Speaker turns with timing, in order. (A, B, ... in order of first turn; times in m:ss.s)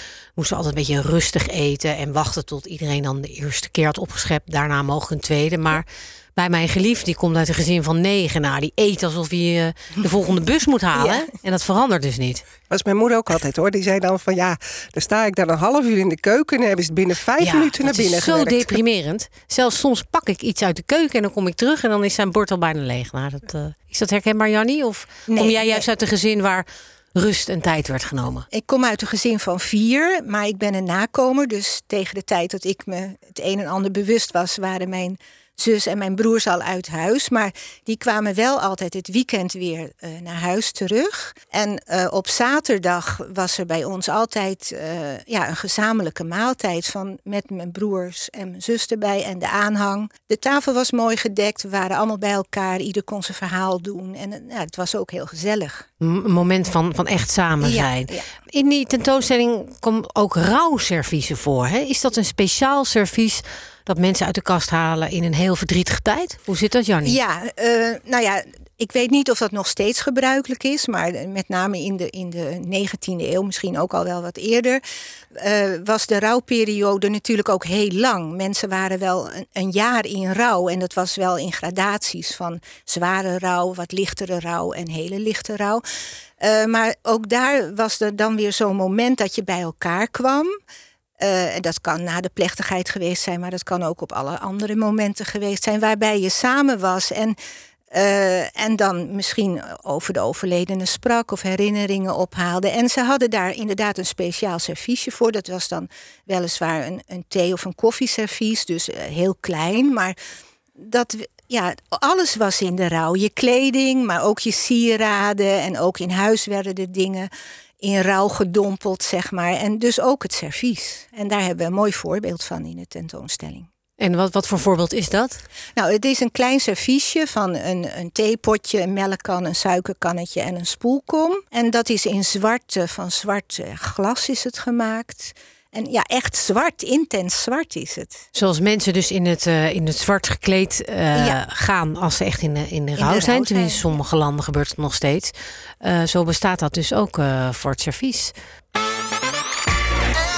0:00.4-0:05.8 A
0:06.4-0:12.4 A
0:10.9-0:11.3 B
0:12.7-0:18.8 C
0:17.4-0:28.5 A
0:25.3-0:25.9 B
0:28.5-0:55.8 B
0:56.0-1:07.2 A
0:57.6-0:58.3 B
1:07.0-1:14.8 B
1:15.3-1:25.8 B
1:26.4-1:30.5 B
1:31.2-1:37.4 B
1:37.9-1:50.2 B
1:50.8-1:57.3 B
1:57.8-2:03.7 B
2:04.0-2:05.4 A
2:05.8-2:18.2 B
2:18.3-2:28.3 A
2:21.1-2:21.4 B
2:23.0-2:23.9 B